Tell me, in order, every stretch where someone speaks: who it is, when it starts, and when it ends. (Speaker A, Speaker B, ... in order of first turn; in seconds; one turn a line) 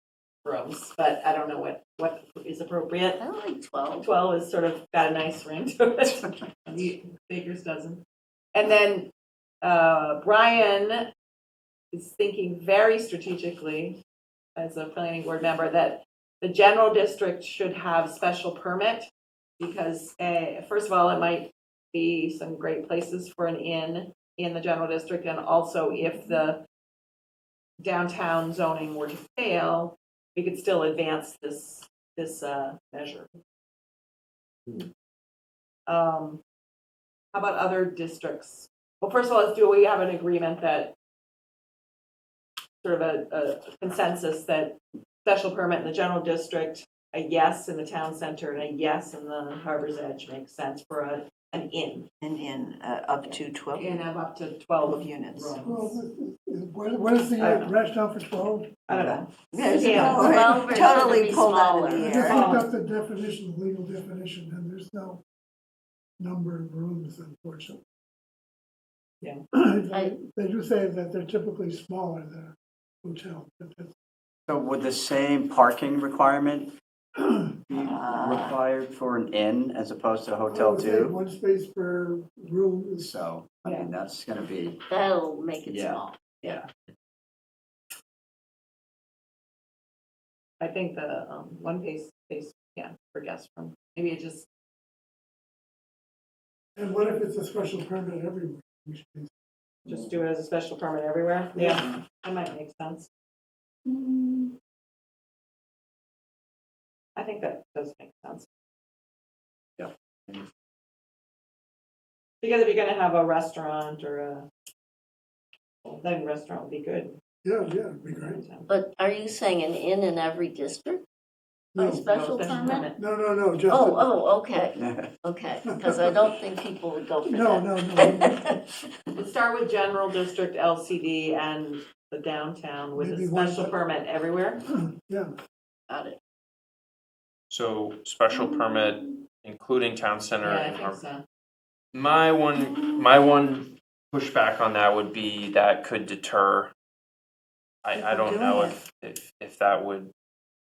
Speaker A: 0.4-3.2
Speaker B: 3.2-4.1
Speaker A: 4.0-8.0
Speaker A: 8.5-9.1
Speaker A: 9.6-11.1
Speaker A: 11.9-14.0
Speaker A: 14.6-19.1
Speaker A: 19.6-26.6
Speaker A: 27.8-33.4
Speaker A: 35.9-36.4
Speaker A: 37.3-40.9
Speaker A: 42.8-52.1
Speaker C: 52.2-54.0
Speaker A: 53.8-56.0
Speaker C: 54.8-55.6
Speaker D: 55.6-58.8
Speaker A: 57.4-57.7
Speaker A: 58.9-60.5
Speaker C: 58.9-62.5
Speaker B: 59.7-62.3
Speaker D: 62.0-65.2
Speaker A: 62.2-62.7
Speaker D: 66.2-67.8
Speaker D: 69.5-73.9
Speaker B: 69.9-70.2
Speaker E: 74.5-76.7
Speaker D: 77.1-77.6
Speaker E: 77.7-81.2
Speaker C: 77.7-78.5
Speaker D: 80.5-83.2
Speaker E: 83.0-84.8
Speaker B: 84.9-86.6
Speaker E: 85.6-86.6
Speaker A: 90.6-94.5
Speaker D: 96.8-99.3
Speaker A: 99.8-103.1
Speaker B: 103.9-104.5
Speaker A: 107.2-108.5
Speaker A: 112.4-114.5
Speaker A: 115.8-117.2
Speaker D: 117.4-118.4
Speaker A: 118.1-118.7
Speaker B: 118.7-121.0
Speaker B: 121.7-122.9
Speaker D: 121.8-122.0
Speaker A: 122.1-123.0
Speaker D: 123.0-124.1
Speaker B: 123.7-128.7
Speaker E: 124.8-125.1
Speaker D: 125.7-126.1
Speaker D: 127.2-128.5
Speaker A: 129.1-134.6
Speaker D: 132.9-133.7
Speaker D: 134.7-135.3
Speaker B: 135.9-136.2
Speaker F: 137.5-141.0
Speaker A: 140.4-141.2
Speaker F: 141.9-146.7
Speaker C: 142.6-143.0
Speaker F: 147.8-150.1
Speaker C: 147.9-148.8